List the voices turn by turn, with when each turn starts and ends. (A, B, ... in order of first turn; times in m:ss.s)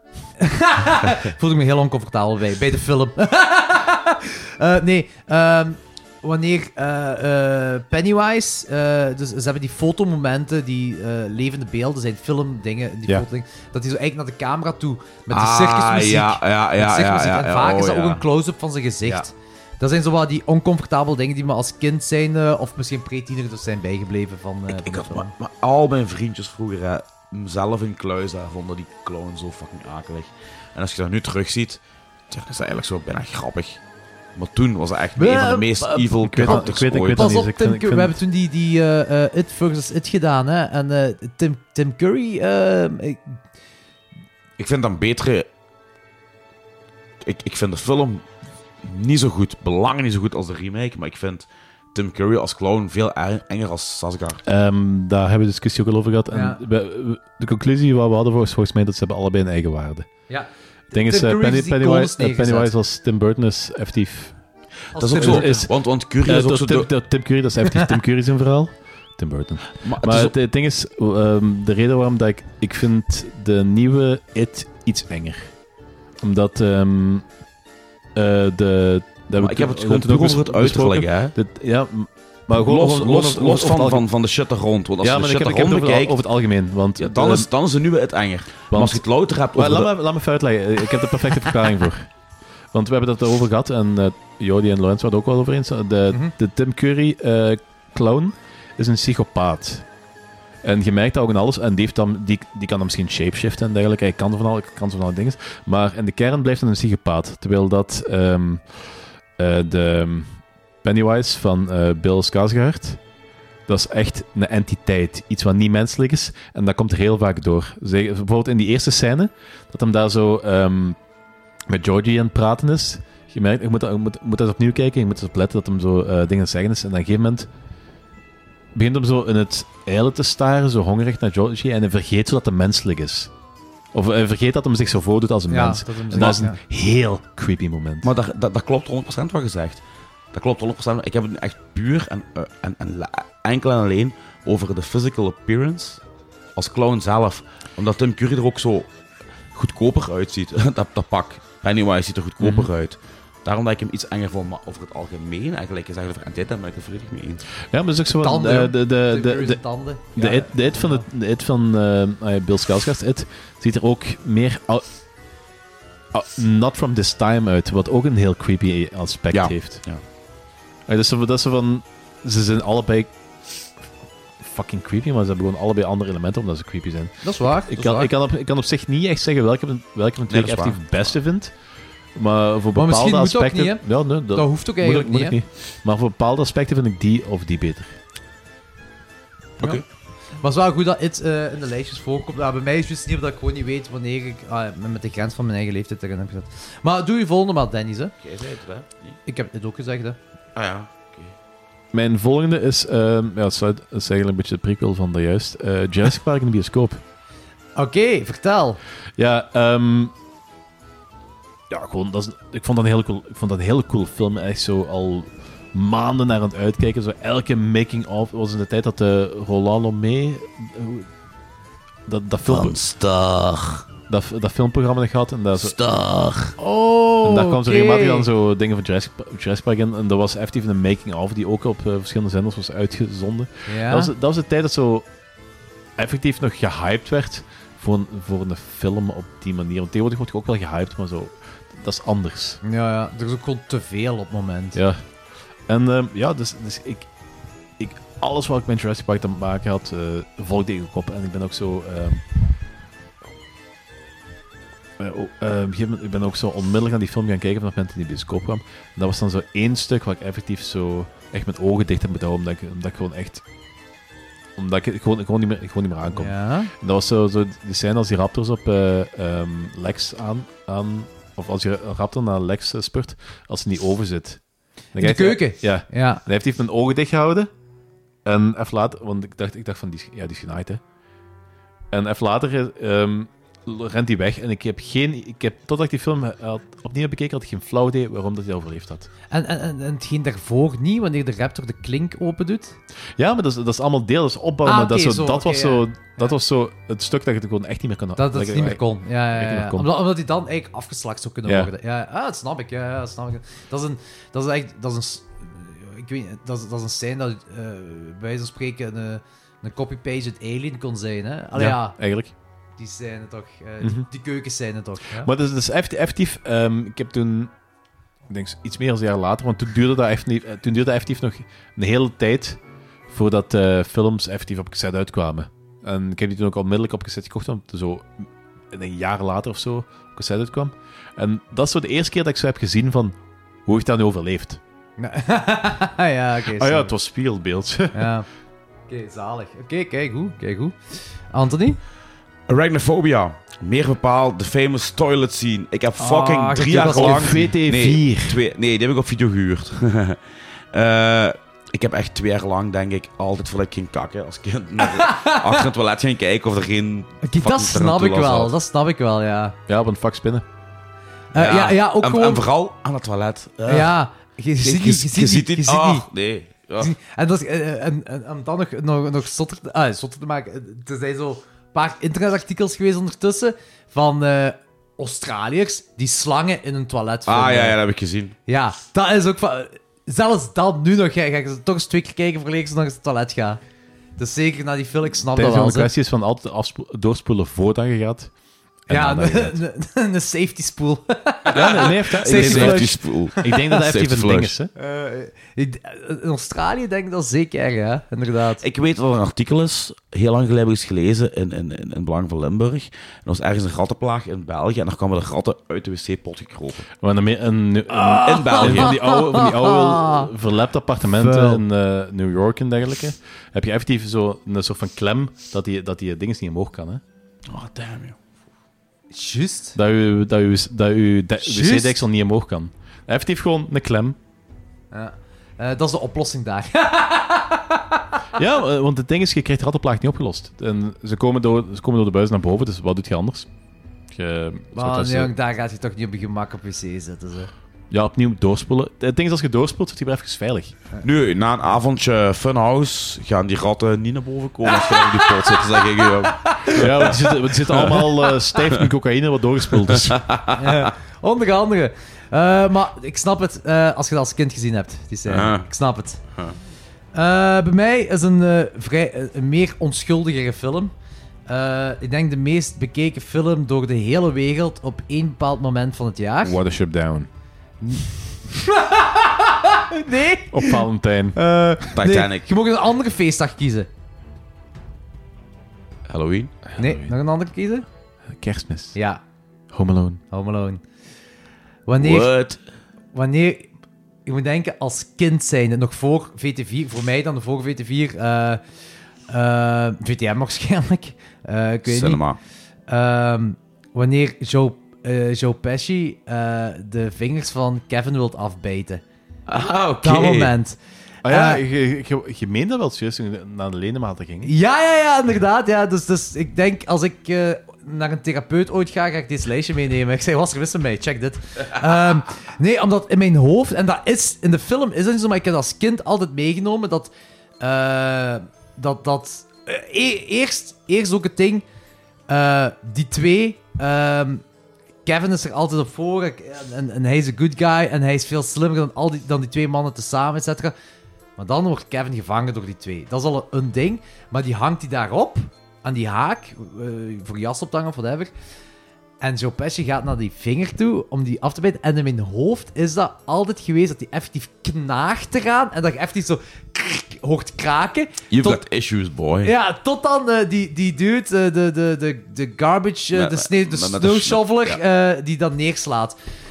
0:00.4-0:25.3 A
0:15.3-0:18.2 B
0:24.7-0:33.8 B
0:34.3-0:37.3 B
0:35.2-0:36.6 A
0:36.1-0:38.2 C
0:37.1-0:43.3 A
0:44.6-0:45.5 B
0:47.2-0:48.2 B
0:48.8-0:54.4 B
0:54.4-1:00.1 C
0:56.3-0:56.6 A
1:00.3-1:02.7 A
1:00.9-1:04.4 C
1:04.9-1:05.6 A
1:05.0-1:06.9 B
1:05.1-1:15.5 C
1:09.8-1:10.3 B
1:16.2-1:17.3 C
1:18.1-1:24.0 C
1:19.4-1:21.3 B
1:22.5-1:26.2 B
1:25.0-1:27.5 C
1:27.0-1:29.9 B
1:28.7-1:32.1 C
1:32.7-1:39.8 C
1:40.6-1:48.7 C
1:49.4-1:53.0 C
1:53.7-2:01.0 C
2:01.7-2:07.5 C
2:08.7-2:13.3 C
2:13.9-2:18.1 C
2:15.5-2:16.6 A
2:18.0-2:26.0 B
2:26.6-2:28.9 B
2:29.5-2:37.5 B
2:32.4-2:32.7 C
2:37.7-2:44.9 C
2:38.2-2:41.0 A
2:46.1-2:49.8 C
2:49.3-2:50.0 B
2:50.9-2:53.1 C
2:54.4-3:01.5 C
2:57.2-2:58.1 A
3:00.3-3:01.1 B
3:02.1-3:08.0 C
3:02.7-3:05.3 A
3:10.4-3:18.1 A
3:18.2-3:19.2 B
3:19.3-3:20.2 A
3:20.5-3:21.3 B
3:21.9-3:27.0 C
3:27.8-3:28.8 A
3:29.2-3:30.1 C
3:31.7-3:41.1 C
3:42.1-3:42.8 C
3:42.4-3:43.9 B
3:44.1-3:45.8 C
3:45.6-3:46.5 B
3:46.6-3:48.3 A
3:47.2-3:55.1 C
3:53.7-3:54.1 A
3:56.0-4:02.6 C
4:02.6-4:04.8 A
4:04.7-4:05.0 C
4:05.7-4:07.1 C
4:07.8-4:12.2 C
4:15.0-4:23.4 C
4:24.6-4:34.4 C
4:26.1-4:26.7 A
4:34.9-4:37.5 C
4:35.0-4:36.2 A
4:38.2-4:40.8 C
4:41.9-4:49.1 C
4:49.3-4:52.8 A
4:53.2-4:59.9 C
4:54.6-4:56.3 A
4:58.2-5:12.0 A
5:01.4-5:01.7 C
5:11.5-5:12.3 C
5:12.8-5:15.3 A
5:13.8-5:14.1 C
5:15.2-5:17.5 C
5:18.3-5:34.6 C
5:35.0-5:36.9 A
5:36.5-5:38.1 C
5:37.9-5:38.3 A
5:38.9-5:41.8 A
5:42.5-5:50.2 B
5:46.0-5:47.4 A
5:46.6-5:48.4 C
5:50.7-5:58.5 B
5:54.8-5:55.6 A
5:57.2-5:59.6 A
5:59.7-6:00.4 C
6:01.3-6:02.4 A
6:01.4-6:03.9 B
6:03.7-6:06.0 A
6:04.6-6:06.9 B
6:06.8-6:17.8 A
6:17.3-6:18.4 B
6:18.5-6:23.6 A
6:24.2-6:25.9 A
6:25.3-6:28.3 C
6:28.9-6:29.6 C
6:28.9-6:33.0 A
6:31.5-6:34.7 C
6:31.5-6:34.5 B
6:34.8-6:38.6 A
6:38.6-6:46.9 B
6:47.0-6:57.0 C
6:47.9-6:50.3 A
6:48.2-6:48.9 B
6:51.2-6:51.6 A
6:57.5-6:58.2 B
6:59.1-6:59.8 A
6:59.7-7:04.2 C
7:01.4-7:02.0 A
7:04.9-7:08.2 A
7:08.3-7:13.5 C
7:14.1-7:15.3 C
7:14.7-7:17.5 A
7:17.9-7:20.8 C
7:21.0-7:27.1 B
7:24.7-7:27.4 A
7:26.7-7:30.3 C
7:27.7-7:28.0 B
7:29.9-7:30.9 B
7:30.6-7:36.2 A
7:35.3-7:35.7 B
7:37.1-7:40.9 A
7:41.5-7:46.6 A
7:46.4-7:47.3 C
7:47.8-7:50.8 A
7:50.5-7:51.4 C
7:51.3-7:53.9 A
7:51.9-7:52.5 B
7:56.1-7:56.5 B
7:56.7-7:57.1 C
7:56.8-7:57.8 A
7:58.3-7:59.0 C
7:58.9-7:59.2 A
7:59.7-8:00.2 C
8:00.3-8:00.8 A
8:01.9-8:02.3 A
8:02.0-8:02.6 B
8:03.1-8:03.7 A
8:04.2-8:08.6 A
8:09.3-8:12.2 A
8:11.8-8:12.4 B
8:12.9-8:19.0 A
8:19.5-8:20.5 B
8:20.0-8:20.8 A
8:21.2-8:24.5 C
8:21.3-8:21.6 A
8:24.4-8:41.6 A
8:42.3-8:44.4 A
8:45.0-8:50.7 A
8:51.4-8:58.3 A
8:59.2-9:08.6 A
9:08.3-9:09.5 B
9:09.4-9:16.2 A
9:13.1-9:14.8 B